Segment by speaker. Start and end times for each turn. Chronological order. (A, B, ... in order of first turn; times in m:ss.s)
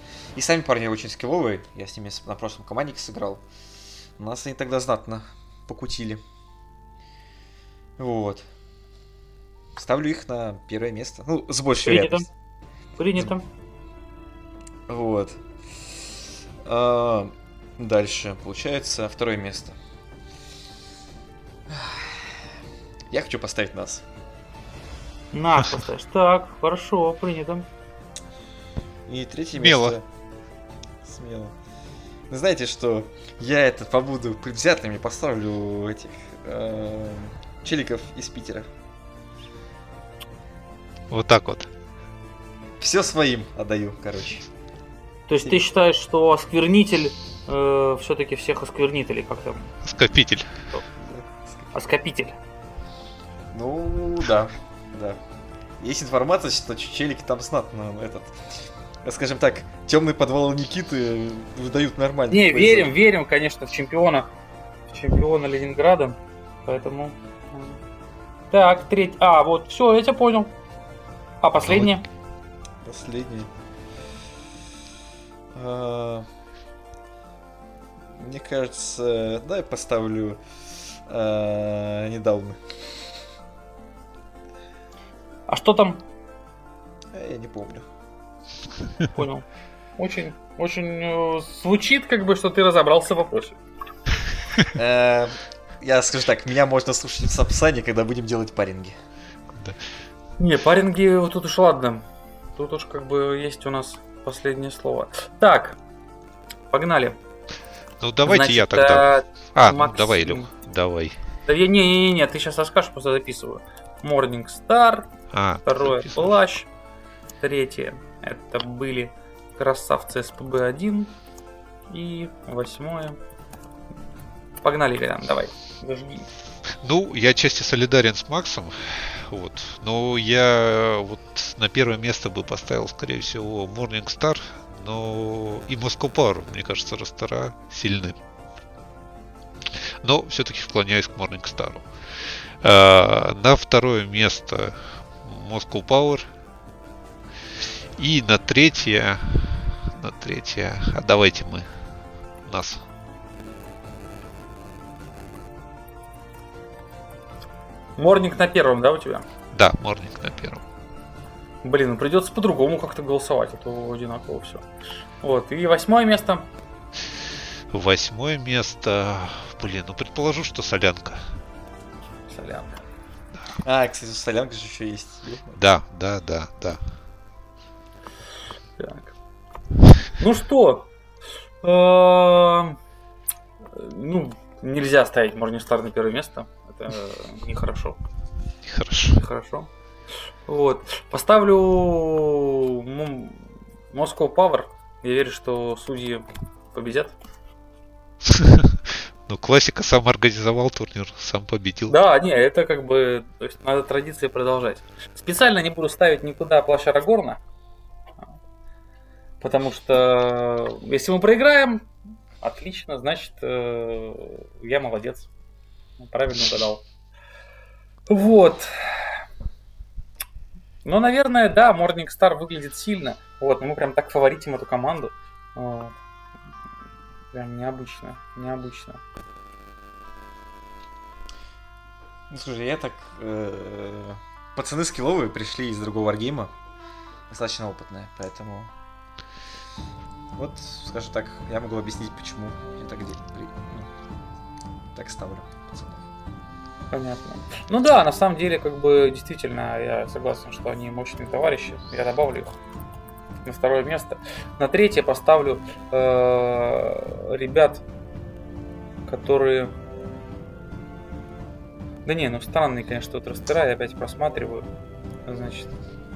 0:00.3-0:03.4 A
0:04.2-0:06.2 A
0:08.0-0:08.4 A
0:09.8-0:12.2 A
0:11.8-0:12.2 B
0:13.0-0:13.4 B
0:14.9-0:15.4 A
0:16.6-0:19.8 A
0:21.7-0:22.4 A
0:23.1-0:24.0 A
0:25.3-0:27.7 B
0:29.1-0:30.0 A
0:29.6-0:30.0 C
0:31.0-0:31.5 A
0:32.3-0:38.7 A
0:41.1-0:41.7 C
0:42.8-0:44.5 A
0:45.3-0:49.7 B
0:49.8-0:50.5 C
0:51.0-0:51.7 A
0:51.7-0:52.4 B
0:53.5-0:55.2 A
0:55.8-0:58.4 A
0:59.0-1:02.9 A
1:02.3-1:04.3 B
1:04.9-1:07.8 B
1:08.5-1:10.5 B
1:11.4-1:12.0 B
1:11.6-1:11.9 C
1:12.8-1:13.5 A
1:15.5-1:16.3 A
1:18.1-1:20.4 A
1:21.1-1:22.6 A
1:25.5-1:26.0 B
1:27.1-1:27.8 A
1:29.1-1:29.4 B
1:30.0-1:33.6 B
1:34.7-1:39.0 A
1:39.5-1:39.8 C
1:40.4-1:42.0 B
1:42.6-1:45.8 B
1:46.7-1:47.2 B
1:48.0-1:51.2 C
1:48.2-1:50.5 B
1:51.4-1:55.1 B
1:55.3-1:56.3 C
1:55.6-1:56.7 B
1:57.4-2:01.1 B
2:01.9-2:03.2 B
2:04.6-2:06.3 B
2:06.7-2:18.2 C
2:19.7-2:26.3 C
2:28.0-2:31.7 C
2:32.4-2:32.8 C
2:38.0-2:39.3 B
2:39.5-2:40.6 C
2:41.6-2:44.6 B
2:45.2-2:46.5 B
2:47.7-2:51.3 C
2:52.3-2:52.8 B
2:53.6-2:55.6 A
2:55.6-2:56.8 C
2:58.8-2:59.1 B
3:00.2-3:00.9 B
3:01.6-3:02.8 B
3:03.7-3:08.0 B
3:08.6-3:09.2 C
3:09.1-3:09.7 B
3:10.5-3:17.2 B
3:18.2-3:21.9 C
3:21.9-3:27.4 B
3:29.4-3:31.8 B
3:32.4-3:35.3 B
3:36.0-3:36.8 B
3:38.1-3:39.2 B
3:40.8-3:45.9 B
3:47.3-3:49.0 B
3:52.3-3:56.5 A
3:57.3-3:58.7 A
4:00.4-4:03.9 A
4:04.9-4:06.0 A
4:06.9-4:12.5 B
4:13.4-4:17.8 B
4:19.0-4:19.7 B
4:22.0-4:24.6 B
4:25.2-4:25.7 B